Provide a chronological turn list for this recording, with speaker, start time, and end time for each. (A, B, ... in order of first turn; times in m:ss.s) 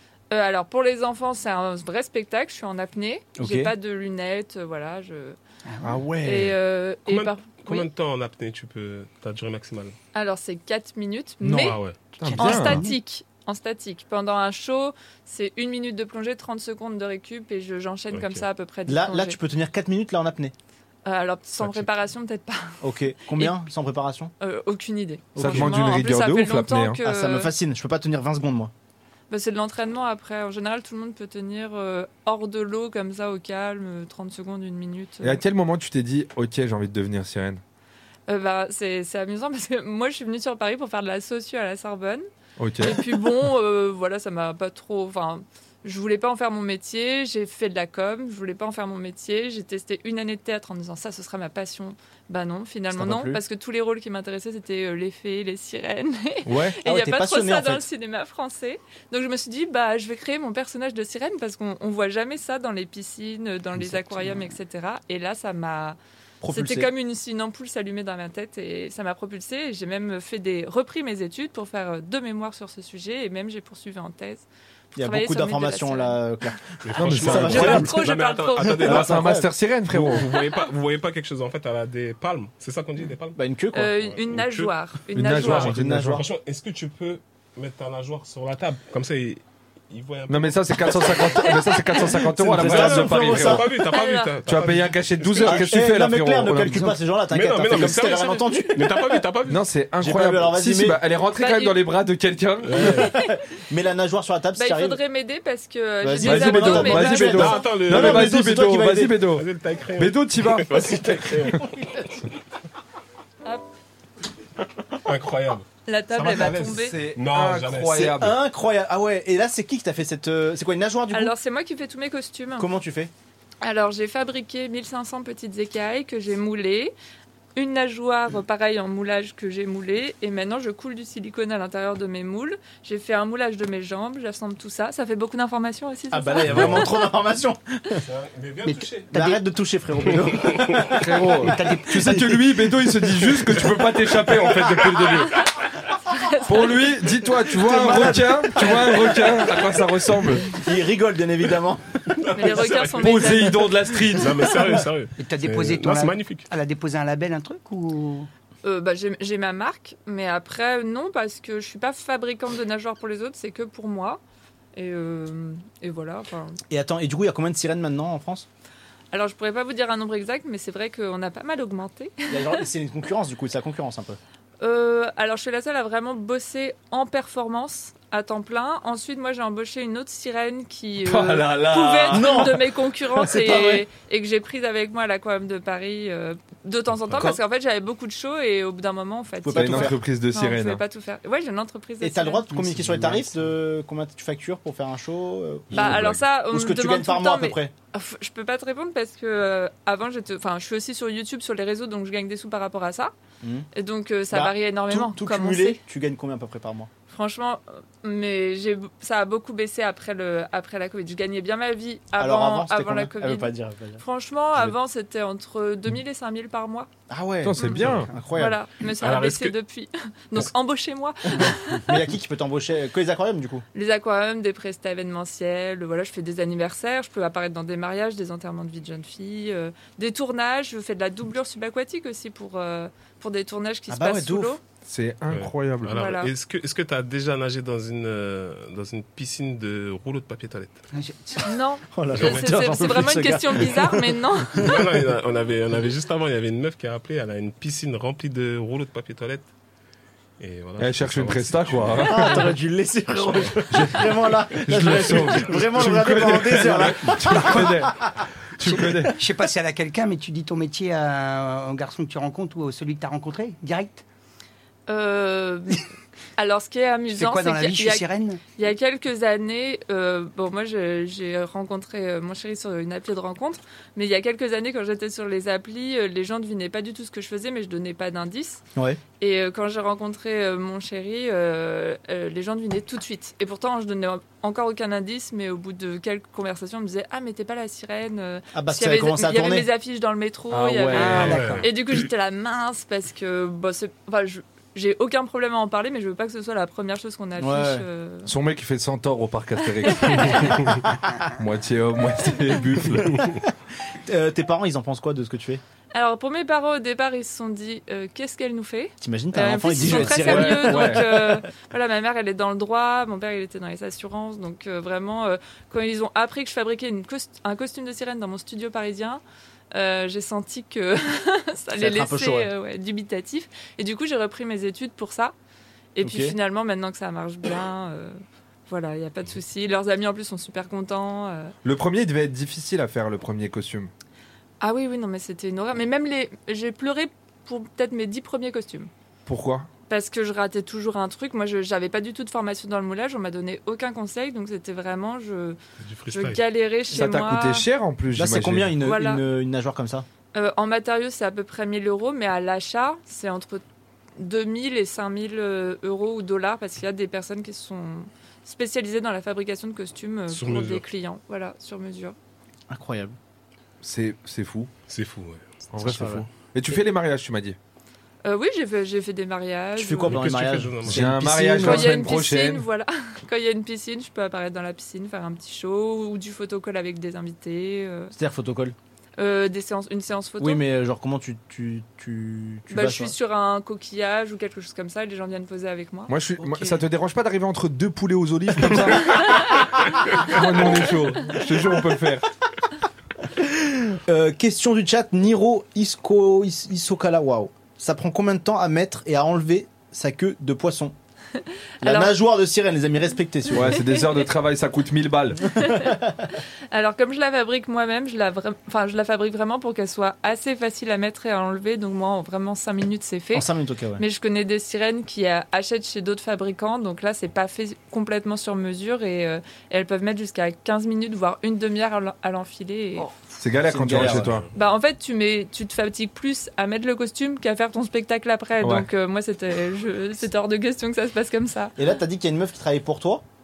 0:00.3-0:05.4 A
0:03.4-0:03.8 B
0:05.7-0:06.0 C
0:05.8-0:06.6 B
0:06.2-0:07.9 A
0:07.1-0:10.0 D
0:10.1-0:11.8 A
0:11.4-0:11.8 B
0:11.4-0:12.0 D
0:12.2-0:12.9 E
0:12.2-0:13.0 C
0:12.4-0:19.4 A
0:18.1-0:18.5 D
0:18.9-0:20.5 B
0:21.0-0:23.6 A
0:21.6-0:21.9 D
0:22.8-0:24.3 B
0:24.4-0:27.5 A
0:25.4-0:25.9 B
0:25.4-0:27.0 E
0:27.0-0:28.7 B
0:29.3-0:35.4 A
0:35.2-0:37.6 E
0:38.3-0:42.3 A
0:42.6-0:43.3 E
0:42.8-1:16.2 A
0:52.9-0:53.4 B
0:56.5-0:56.8 E
0:56.8-0:57.9 B
1:03.8-1:04.5 B
1:06.4-1:06.9 B
1:15.0-1:18.0 B
1:16.8-1:19.3 D
1:16.9-1:18.0 E
1:17.4-1:18.9 A
1:18.7-1:19.5 B
1:18.8-1:20.3 E
1:19.9-1:23.4 D
1:23.4-1:24.0 B
1:23.7-1:25.7 A
1:24.0-1:24.7 D
1:25.1-1:26.2 E
1:25.4-1:26.2 B
1:25.4-1:31.6 D
1:30.3-1:33.7 E
1:31.6-1:32.0 A
1:32.3-1:33.7 B
1:32.5-1:35.7 D
1:33.8-1:34.4 A
1:34.4-1:36.9 E
1:35.4-1:39.2 B
1:36.6-1:36.9 C
1:37.3-1:39.6 D
1:39.5-1:43.1 E
1:40.0-1:41.0 B
1:41.4-1:41.8 A
1:42.6-1:43.1 D
1:42.8-1:45.0 B
1:44.6-1:47.7 A
1:46.0-1:49.2 B
1:46.2-1:51.6 E
1:47.4-1:48.5 D
1:49.3-1:51.6 D
1:51.6-1:52.0 B
1:55.0-1:58.1 D
1:55.9-1:57.0 A
1:56.5-1:58.4 E
1:57.9-2:01.3 B
2:01.1-2:02.7 A
2:02.6-2:03.1 B
2:03.6-2:07.0 A
2:07.6-2:17.1 A
2:16.1-2:18.0 B
2:16.5-2:16.9 D
2:18.0-2:19.1 D
2:18.6-2:19.4 C
2:19.1-2:22.4 B
2:20.1-2:20.9 D
2:21.0-2:25.4 E
2:21.3-2:22.3 C
2:23.2-2:23.4 B
2:26.1-2:26.9 A
2:26.5-2:30.5 E
2:27.5-2:29.5 B
2:30.5-2:31.8 B
2:32.2-2:36.5 D
2:32.4-2:33.7 A
2:32.9-2:34.5 E
2:35.2-2:38.3 C
2:38.6-2:44.2 A
2:44.8-2:46.6 A
2:46.7-2:48.5 B
2:49.1-2:52.7 A
2:52.3-2:54.2 B
2:54.6-3:12.6 A
3:01.0-3:02.5 E
3:02.1-3:03.9 B
3:07.2-3:07.4 B
3:09.4-3:10.0 B
3:09.5-3:10.8 E
3:12.0-3:17.7 B
3:15.7-3:23.1 A
3:23.4-3:23.7 B
3:23.8-3:25.8 A
3:24.3-3:26.9 B
3:27.1-3:36.9 A
3:32.2-3:34.0 B
3:37.1-3:38.6 B
3:37.4-3:38.1 E
3:38.3-3:42.0 A
3:39.0-3:39.6 D
3:41.4-3:43.6 B
3:43.7-3:54.6 A
3:53.9-3:54.6 B
3:54.8-3:56.0 E
3:55.3-4:00.8 D
3:55.9-3:56.3 A
4:00.9-4:01.6 C
4:01.5-4:04.6 A
4:01.9-4:04.9 B
4:02.1-4:02.5 D
4:04.6-4:09.5 D
4:10.4-4:12.5 D
4:10.8-4:12.5 E
4:12.0-4:17.9 B
4:13.7-4:18.1 E
4:17.3-4:17.7 C
4:18.6-4:19.2 E
4:18.6-4:24.0 C
4:24.9-4:25.8 A
4:26.4-4:38.6 A
4:27.1-4:28.4 C
4:39.2-4:58.3 A
4:48.5-4:49.7 B
4:50.5-4:51.6 E
4:50.9-4:51.4 B
4:50.9-4:51.6 C
4:51.0-4:51.7 D
4:57.4-4:57.8 B
4:58.3-5:00.8 E
4:59.8-5:00.5 A
5:01.4-5:03.2 E
5:04.1-5:05.6 B
5:05.9-5:19.2 A
5:09.0-5:11.4 B
5:09.8-5:11.3 E
5:19.7-5:25.4 A
5:21.8-5:22.5 B
5:26.0-5:31.5 A
5:26.0-5:26.4 B
5:31.6-5:33.9 E
5:34.6-5:38.9 A
5:39.3-5:39.7 E
5:39.9-5:45.6 A
5:45.8-5:46.4 D
5:46.1-5:47.7 A
5:46.9-5:48.8 E
5:48.2-5:50.1 B
5:48.8-5:49.2 A
5:50.3-5:53.6 A
5:54.2-6:02.2 A
6:00.3-6:00.9 D
6:02.7-6:03.2 B
6:03.8-6:04.7 E
6:04.9-6:05.4 D
6:05.7-6:07.6 E
6:05.8-6:06.3 B
6:08.2-6:10.2 A
6:09.8-6:12.1 B
6:10.1-6:11.0 D
6:10.8-6:12.7 E
6:11.6-6:18.1 A
6:18.1-6:18.8 B
6:19.2-6:20.6 A
6:20.4-6:23.2 B
6:22.7-6:26.1 A
6:26.1-6:29.5 E
6:30.1-6:32.2 E
6:33.5-6:41.0 B
6:41.8-6:43.8 B
6:41.8-6:42.2 A
6:43.5-6:45.5 E
6:43.8-6:44.3 A
6:45.6-7:03.1 A
6:45.7-6:46.0 B
6:53.3-6:54.0 B
7:03.4-7:04.5 E
7:03.6-7:04.4 B
7:03.9-7:04.4 D
7:04.5-7:11.7 A
7:08.6-7:08.9 E
7:11.8-7:13.2 B